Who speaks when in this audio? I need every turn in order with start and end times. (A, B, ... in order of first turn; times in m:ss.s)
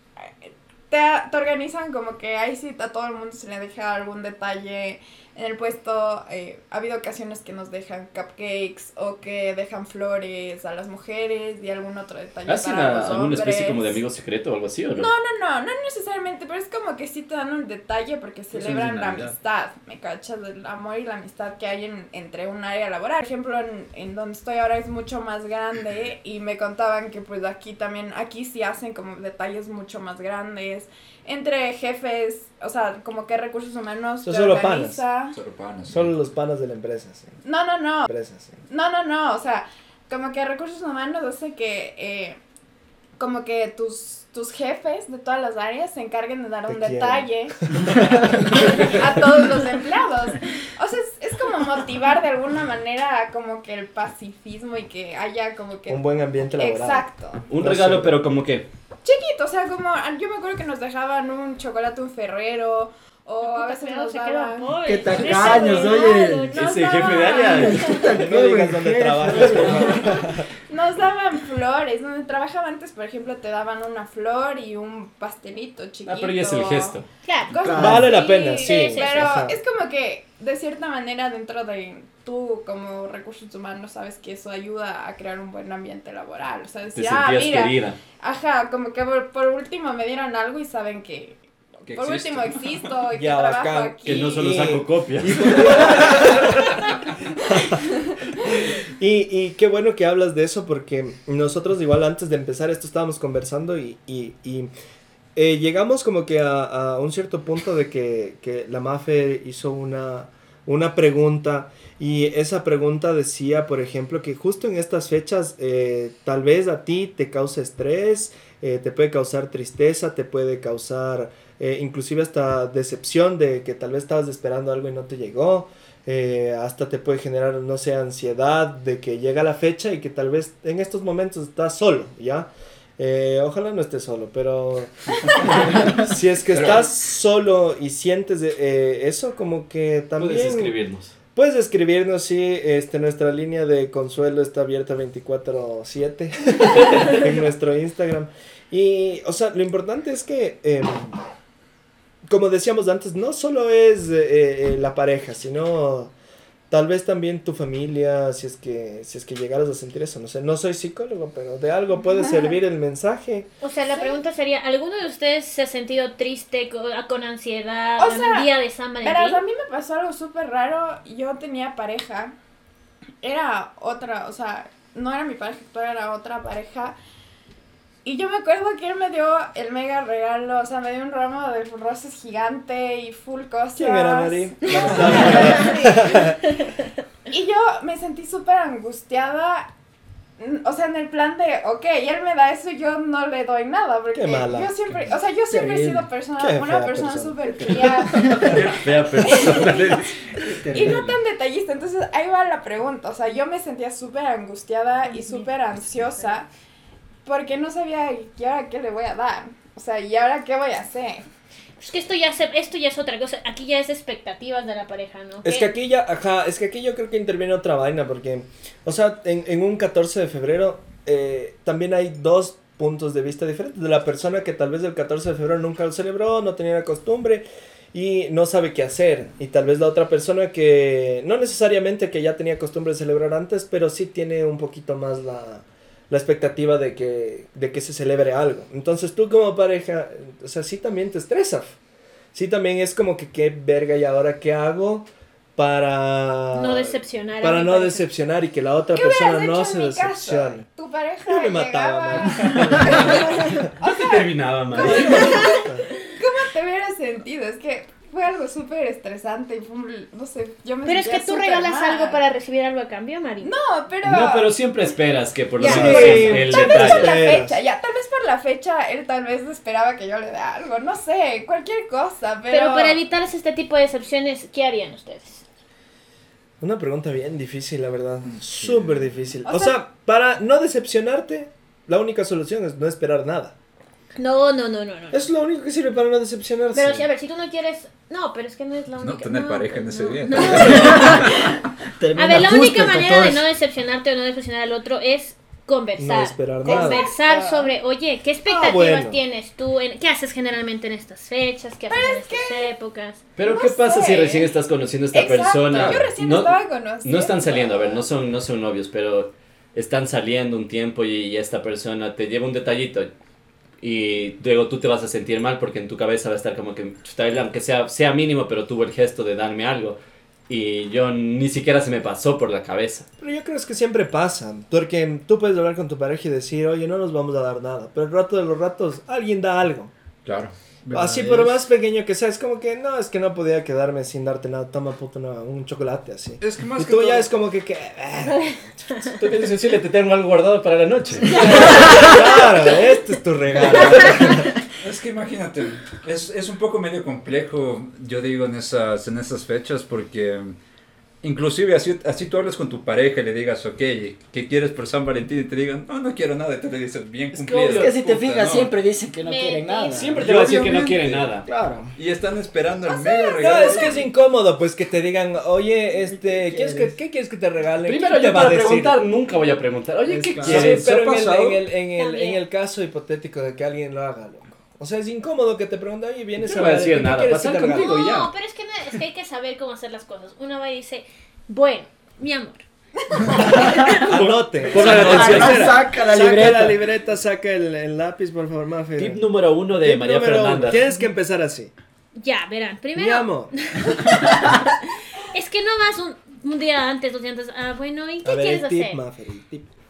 0:00.2-0:14.0 A
0:12.4-0:15.1 B
0:14.9-0:35.4 A
0:18.6-0:19.3 C
0:34.2-0:35.0 D
0:35.3-0:36.1 E
0:35.9-0:37.4 D
0:37.4-0:38.1 A
0:38.0-0:38.6 D
0:38.7-0:42.4 A
0:43.2-0:47.7 A
0:46.7-0:47.3 D
0:48.3-0:57.4 A
0:48.7-0:49.0 D
0:55.9-0:57.0 D
0:57.5-0:58.7 B
0:57.6-0:58.2 D
0:59.0-1:07.9 A
1:03.4-1:08.0 F
1:04.8-1:06.6 C
1:06.5-1:08.0 B
1:07.4-1:10.3 C
1:08.1-1:10.4 D
1:10.7-1:17.0 A
1:16.0-1:17.0 B
1:17.2-1:17.6 F
1:17.5-1:34.6 A
1:17.6-1:18.1 C
1:17.7-1:19.6 D
1:18.1-1:19.3 F
1:26.9-1:28.0 B
1:31.8-1:32.8 E
1:33.1-1:36.8 D
1:34.0-1:36.0 B
1:37.4-1:37.8 D
1:38.4-1:44.7 D
1:45.3-2:20.7 D
2:16.5-2:16.9 E
2:20.2-2:21.1 B
2:21.3-2:31.2 D
2:32.2-2:36.1 D
2:36.7-2:43.5 D
2:42.1-2:42.6 A
2:43.6-2:49.4 F
2:48.0-2:48.5 A
2:49.0-2:52.3 A
2:53.2-2:57.0 A
2:58.0-3:06.6 A
3:03.8-3:06.4 D
3:05.0-3:05.9 F
3:07.3-3:09.7 A
3:10.4-3:20.0 A
3:14.1-3:14.8 D
3:15.5-3:16.1 C
3:16.4-3:18.6 D
3:17.7-3:18.7 C
3:18.2-3:20.9 B
3:20.5-3:21.2 C
3:20.7-3:26.5 A
3:25.1-3:25.5 F
3:27.2-3:31.2 A
3:31.8-3:35.7 F
3:35.4-4:01.8 D
4:02.3-4:10.7 D
4:06.5-4:08.0 F
4:08.9-4:22.2 A
4:11.2-4:13.7 D
4:12.4-4:13.0 C
4:13.8-4:15.4 B
4:14.7-4:15.9 D
4:15.1-4:15.6 F
4:20.8-4:23.5 F
4:23.4-4:24.5 A
4:24.0-4:27.2 B
4:25.6-4:26.3 F
4:25.6-4:27.6 D
4:25.6-4:33.0 A
4:32.5-4:35.4 F
4:36.6-4:43.6 D
4:39.4-4:39.8 A
4:44.2-4:45.3 F
4:45.1-4:47.1 D
4:46.7-4:51.4 F
4:49.0-4:51.5 E
4:50.5-4:51.4 C
4:52.0-4:53.5 C
4:52.2-5:03.2 F
4:56.0-4:57.1 D
4:56.6-4:57.7 A
4:58.4-4:59.2 D
5:01.9-5:02.7 A
5:03.4-5:13.1 B
5:03.4-5:04.5 A
5:05.1-5:08.0 A
5:05.7-5:06.1 E
5:13.8-5:23.1 B
5:23.2-5:29.9 D
5:30.2-5:30.5 E
5:30.9-5:31.4 C
5:30.9-5:39.3 D
5:36.4-5:37.3 E
5:39.2-5:42.2 B
5:41.3-5:42.4 F
5:41.3-5:44.5 D
5:44.8-5:50.5 E
5:51.2-5:58.7 E
5:57.3-5:58.0 B
5:57.7-6:01.9 C
5:59.2-6:00.2 F
5:59.9-6:01.4 B
6:00.2-6:01.4 E
6:02.0-6:04.1 E
6:02.9-6:03.4 F
6:03.4-6:09.0 D
6:06.0-6:06.9 C
6:07.8-6:10.9 B
6:10.2-6:18.0 D
6:10.4-6:10.6 C
6:10.4-6:11.6 E
6:12.0-6:12.4 F
6:16.4-6:18.3 B
6:17.7-6:22.6 F
6:23.2-6:24.0 F
6:23.3-6:23.9 C
6:23.3-6:29.2 D
6:24.1-6:25.8 B
6:24.7-6:26.8 C
6:29.0-6:30.8 B
6:29.8-6:31.7 D
6:32.2-6:34.8 F
6:32.9-6:33.6 D
6:35.3-6:39.0 F
6:38.2-6:39.7 D